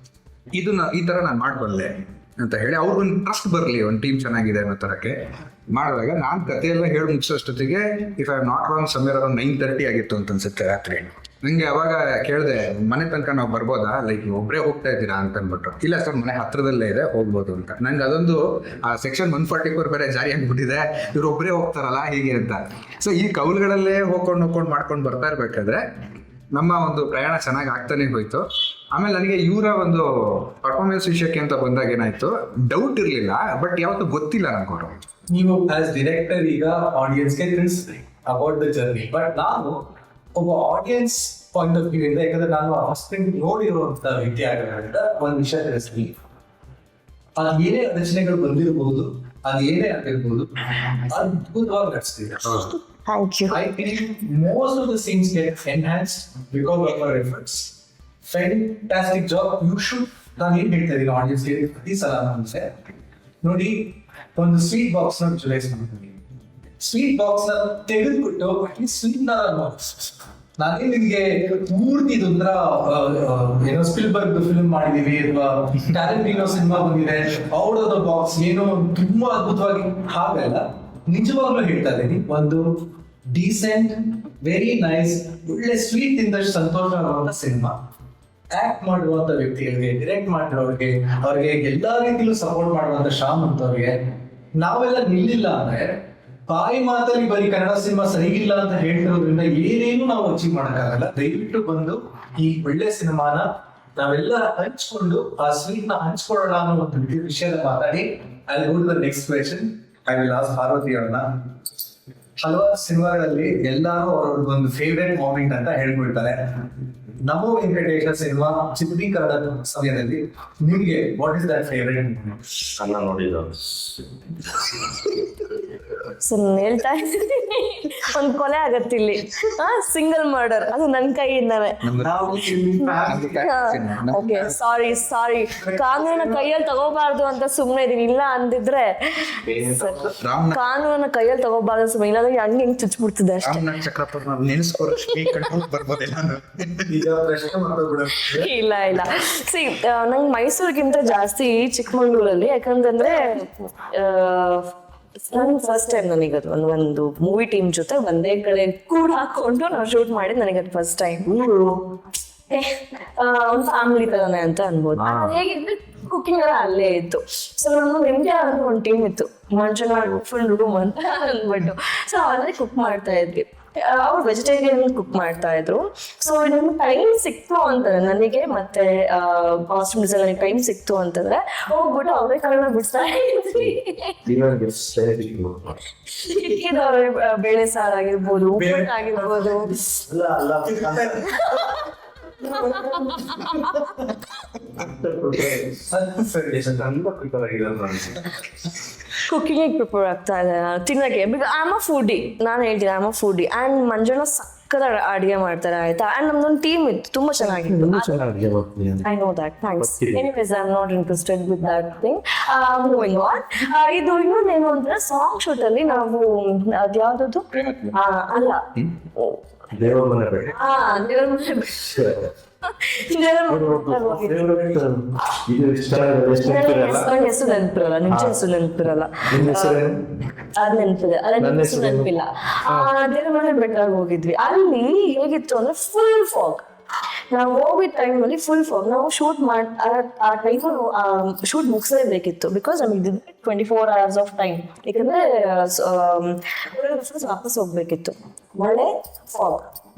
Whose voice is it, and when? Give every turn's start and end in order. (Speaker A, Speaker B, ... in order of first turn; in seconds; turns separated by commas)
Speaker A: 0.5-25.8, Speaker A: 26.5-35.0, Speaker B: 35.3-39.8, Speaker B: 40.4-46.2, Speaker B: 47.4-52.6, Speaker C: 52.8-53.6, Speaker B: 53.5-57.7, Speaker B: 58.3-62.8, Speaker B: 63.4-66.2, Speaker B: 66.8-87.8, Speaker B: 88.5-111.5, Speaker B: 112.4-116.7, Speaker B: 117.2-122.5, Speaker D: 122.8-124.0, Speaker C: 126.2-131.8, Speaker A: 131.8-132.4, Speaker B: 132.0-133.5, Speaker A: 133.1-134.5, Speaker C: 133.4-143.7, Speaker B: 135.6-136.5, Speaker D: 139.4-140.2, Speaker A: 140.2-140.6, Speaker A: 143.4-146.9, Speaker B: 146.9-148.5, Speaker C: 148.2-154.7, Speaker C: 155.3-161.4, Speaker D: 161.4-161.8, Speaker C: 162.5-184.2, Speaker D: 164.9-165.4, Speaker D: 184.2-185.8, Speaker C: 186.1-189.7, Speaker B: 188.6-190.0, Speaker D: 190.1-191.7, Speaker B: 190.9-191.2, Speaker C: 191.4-191.8, Speaker B: 192.5-193.7, Speaker C: 192.6-193.7, Speaker D: 194.7-195.9, Speaker B: 195.9-196.8, Speaker D: 196.5-198.4, Speaker C: 199.2-208.2, Speaker D: 207.4-209.1, Speaker C: 209.1-219.4, Speaker D: 209.8-210.3, Speaker D: 219.7-220.6, Speaker C: 220.5-224.5, Speaker D: 221.8-222.3, Speaker D: 223.5-227.1, Speaker C: 226.4-229.8, Speaker D: 228.1-228.4, Speaker D: 229.3-230.2, Speaker C: 230.6-236.7, Speaker D: 231.4-232.1, Speaker C: 237.3-249.7